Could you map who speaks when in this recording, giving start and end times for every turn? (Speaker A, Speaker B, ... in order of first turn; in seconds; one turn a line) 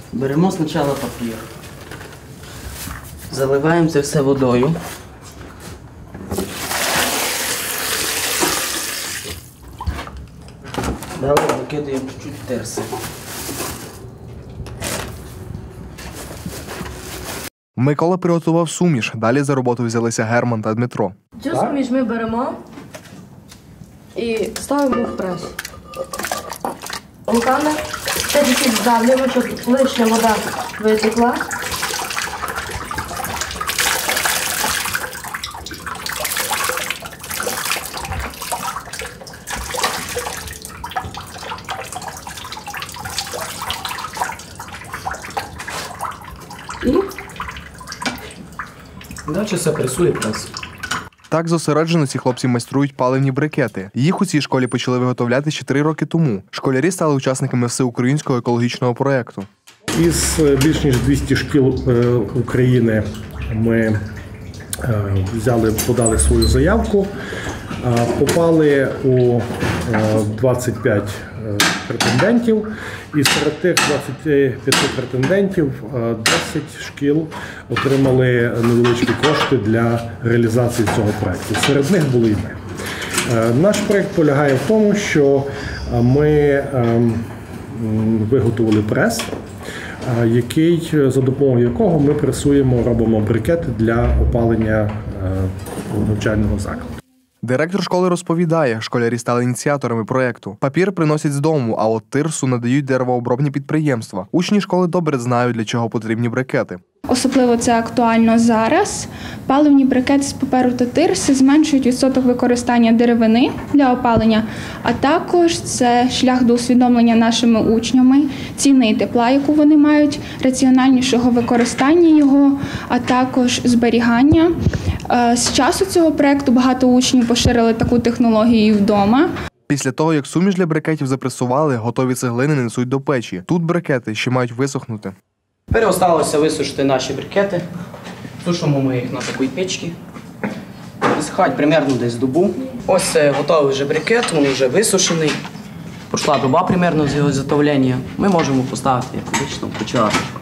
Speaker A: 0.1-1.5
Speaker A: 3.3-4.8
Speaker A: 11.2-12.9
Speaker B: 17.8-21.1
Speaker C: 21.4-22.5
Speaker C: 24.2-25.5
Speaker C: 27.3-27.8
Speaker C: 28.3-31.4
Speaker A: 49.3-50.5
Speaker B: 51.3-59.5
Speaker D: 60.0-64.0
Speaker D: 64.8-67.1
Speaker D: 67.8-82.6
Speaker D: 83.3-89.3
Speaker D: 90.0-96.9
Speaker B: 97.4-106.8
Speaker E: 107.1-124.5
Speaker E: 125.1-129.3
Speaker B: 129.7-135.2
Speaker A: 135.7-137.7
Speaker A: 138.4-140.0
Speaker A: 141.0-145.4
Speaker A: 146.1-150.2